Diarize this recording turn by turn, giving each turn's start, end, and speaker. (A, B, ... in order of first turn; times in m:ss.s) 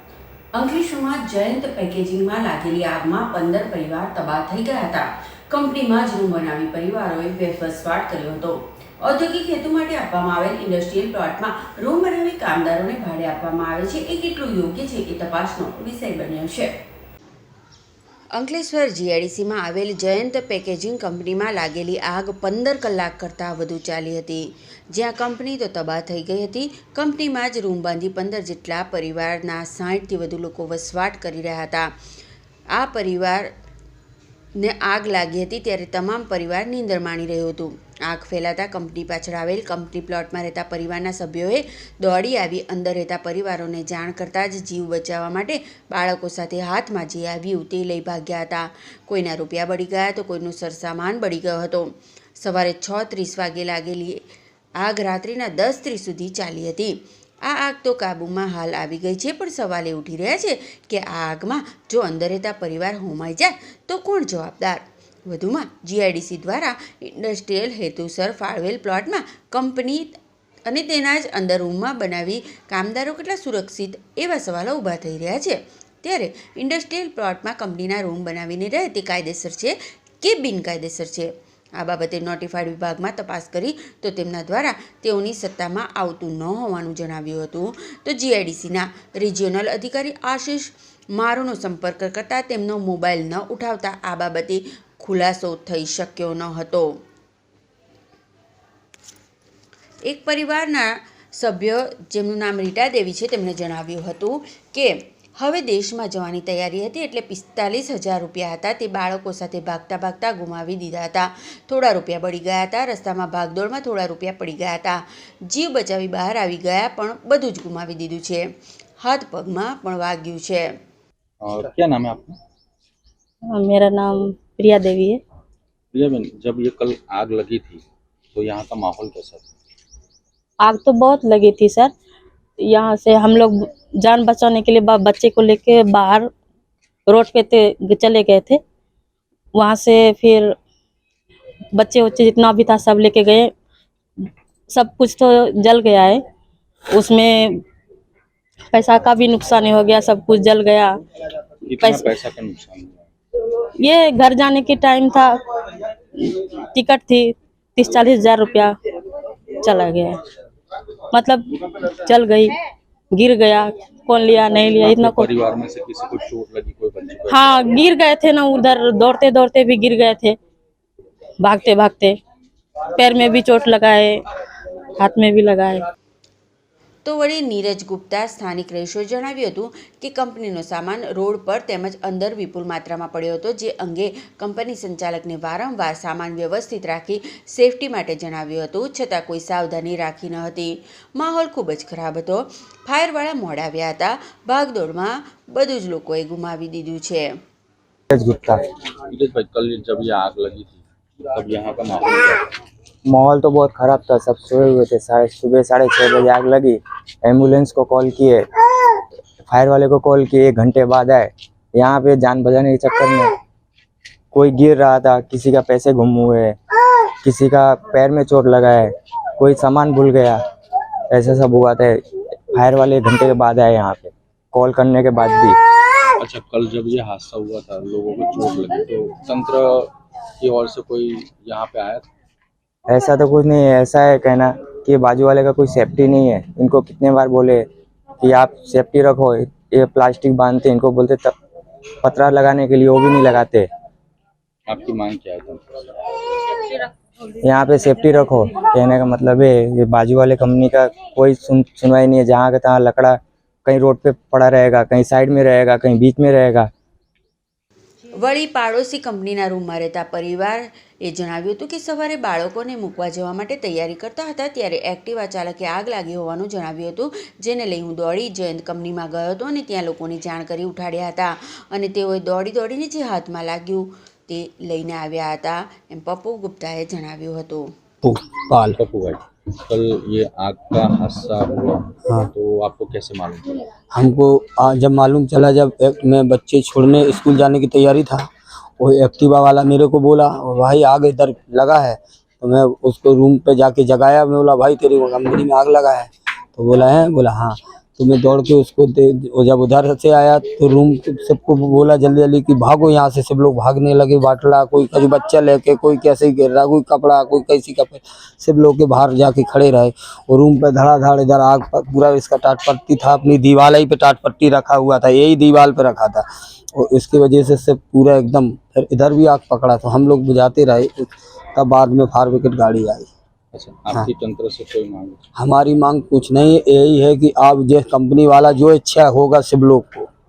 0:00.5-0:16.8 A
0:18.3-0:31.9 A
0:32.7-0:33.5 A
0:34.6-0:54.2 A
0:54.8-1:36.9 A
1:40.1-1:58.5 A
1:59.0-2:00.7 A
2:01.4-2:02.4 B
2:03.5-2:05.2 C
2:05.9-2:09.6 B
2:10.6-2:11.9 C
2:12.6-2:16.3 C
2:17.1-2:18.6 C
2:19.6-2:20.5 C
2:21.8-2:23.5 C
2:24.7-2:26.2 C
2:26.9-2:27.6 C
2:28.7-2:31.0 C
2:31.7-2:33.1 B
2:31.8-2:32.2 C
2:33.8-2:35.4 C
2:36.2-2:38.8 C
2:39.6-2:40.2 C
2:41.1-2:42.6 C
2:43.1-2:45.3 C
2:44.8-2:47.5 B
2:47.3-2:50.4 C
2:51.4-2:52.2 C
2:52.9-2:54.2 C
2:55.0-2:55.8 C
2:57.0-3:17.3 A
3:18.1-3:18.6 D
3:19.1-3:22.5 B
3:23.1-3:28.4 D
3:29.5-3:33.3 D
3:34.3-3:36.6 D
3:37.2-3:40.4 D
3:41.1-3:42.0 D
3:42.5-3:45.6 D
3:46.2-3:52.1 B
3:52.9-3:57.6 D
3:58.2-4:01.3 D
4:02.0-4:03.7 D
4:04.7-4:06.2 B
4:07.4-4:16.7 D
4:18.1-4:37.7 A
4:38.0-4:38.8 E
4:38.7-4:43.6 B
4:43.9-5:23.1 E
5:23.5-5:25.2 B
5:25.4-5:30.1 E